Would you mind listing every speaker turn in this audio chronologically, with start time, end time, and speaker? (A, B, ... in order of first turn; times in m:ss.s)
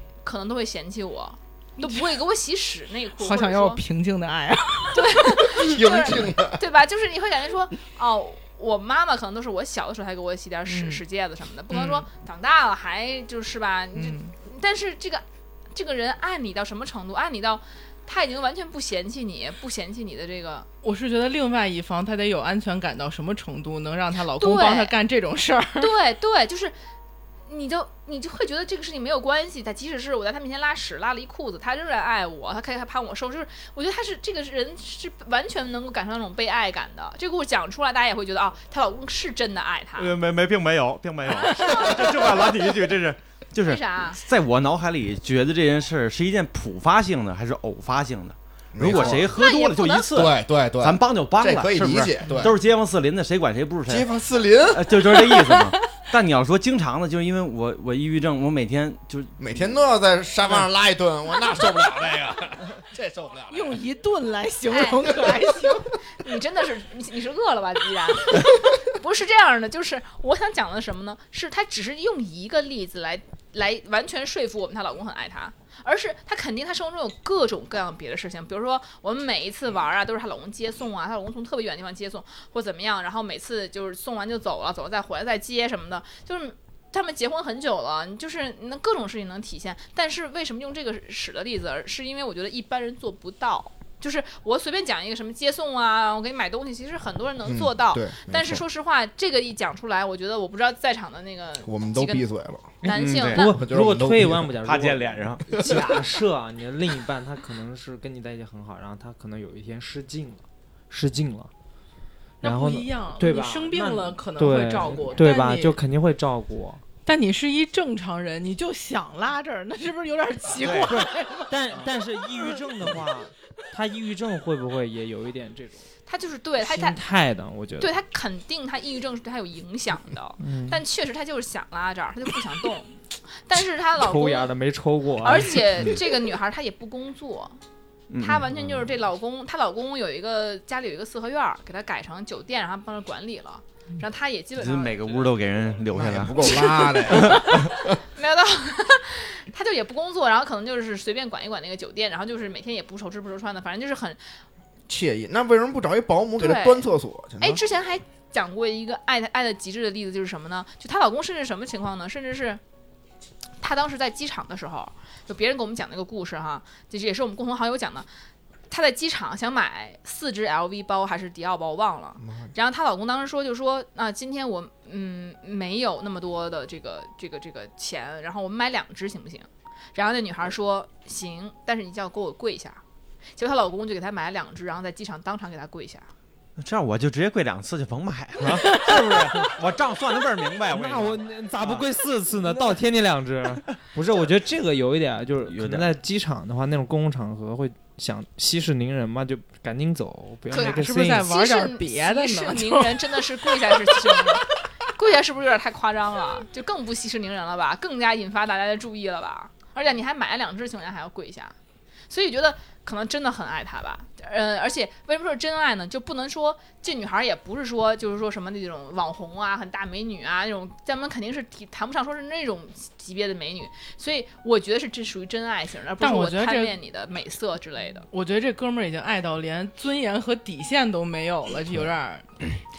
0:00.2-0:03.8 A
0:01.8-0:02.1 B
0:03.1-0:05.1 B
0:04.9-0:20.7 A
0:05.4-0:06.6 C
0:10.6-0:11.0 B
0:11.7-0:12.1 B
0:13.9-0:14.4 B
0:20.8-0:25.9 B
0:24.4-0:24.9 A
0:25.8-0:26.8 A
0:27.5-0:40.1 A
0:40.0-0:54.1 D
0:43.6-0:44.2 A
0:48.7-0:49.4 C
0:49.0-0:50.1 A
0:50.1-0:52.6 C
0:53.9-0:55.0 C
0:54.7-0:59.4 D
0:59.4-1:03.8 C
1:03.5-1:05.9 B
1:04.7-1:05.1 A
1:06.2-1:42.2 A
1:37.4-1:38.6 C
1:41.6-1:42.8 C
1:42.8-1:43.5 A
1:42.8-1:51.5 E
1:42.9-1:43.4 D
1:43.4-1:44.6 C
1:44.6-1:45.4 D
1:45.6-1:46.0 C
1:52.4-1:55.8 B
1:52.4-1:56.8 E
1:57.1-2:01.5 B
2:00.6-2:00.9 D
2:00.9-2:05.9 E
2:06.1-2:07.0 A
2:06.6-2:08.0 E
2:07.8-2:14.5 A
2:10.4-2:10.8 E
2:14.0-2:15.9 E
2:15.2-2:17.6 A
2:18.1-2:18.5 D
2:18.2-2:25.3 A
2:24.6-2:27.5 D
2:25.9-2:28.0 C
2:27.1-2:34.2 A
2:34.9-2:37.6 C
2:36.4-2:42.6 A
2:43.6-2:48.1 A
2:48.7-3:02.8 A
2:52.2-2:52.5 C
3:03.4-3:06.1 A
3:06.6-3:11.9 D
3:08.5-3:09.5 E
3:10.7-3:21.3 E
3:15.5-3:15.9 D
3:20.5-3:31.5 A
3:20.6-3:24.4 B
3:32.1-3:48.1 A
3:46.0-3:46.8 B
3:48.1-3:52.3 B